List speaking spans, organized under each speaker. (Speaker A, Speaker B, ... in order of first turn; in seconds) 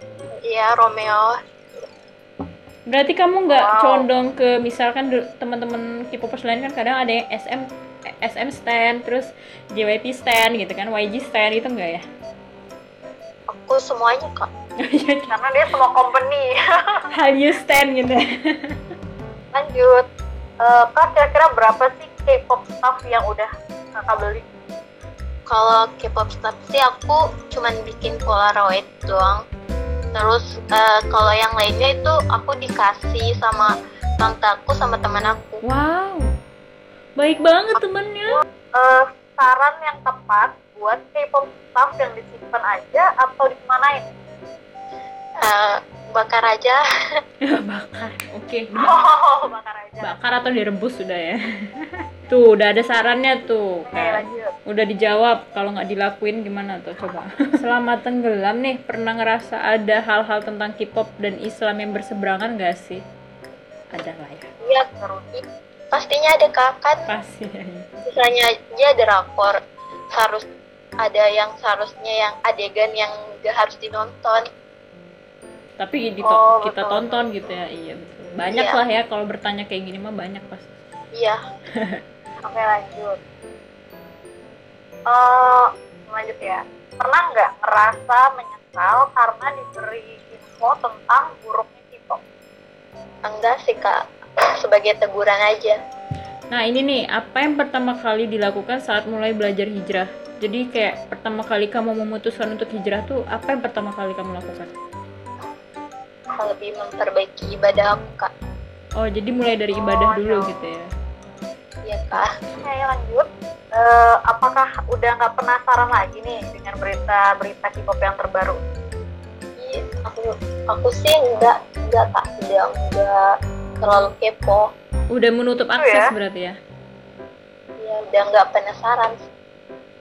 Speaker A: 0.4-1.8, 13.5-14.5, 25.5-29.4, 30.1-35.6, 45.4-46.8, 65.9-67.0, 68.1-69.6, 70.1-70.4, 71.0-74.4, 78.5-78.8, 93.2-94.0, 94.6-95.8, 106.3-108.3, 111.8-112.3, 119.6-123.2, 123.8-124.7, 127.8-129.2
Speaker B: 2.9-7.7, 8.2-12.0, 14.8-15.3, 17.1-18.8, 35.6-36.3, 37.2-38.4, 47.4-48.9, 50.0-63.0, 63.9-64.5, 67.1-67.9, 75.8-80.7, 96.5-104.7, 109.0-110.9, 125.1-126.5
Speaker C: 3.5-4.1, 15.3-17.1, 19.5-20.0, 20.6-24.4, 38.3-44.1, 48.8-50.2, 53.9-54.5, 64.6-65.4, 76.2-77.3, 82.4-83.2, 85.1-92.2, 109.7-110.5, 112.5-118.6, 125.8-126.1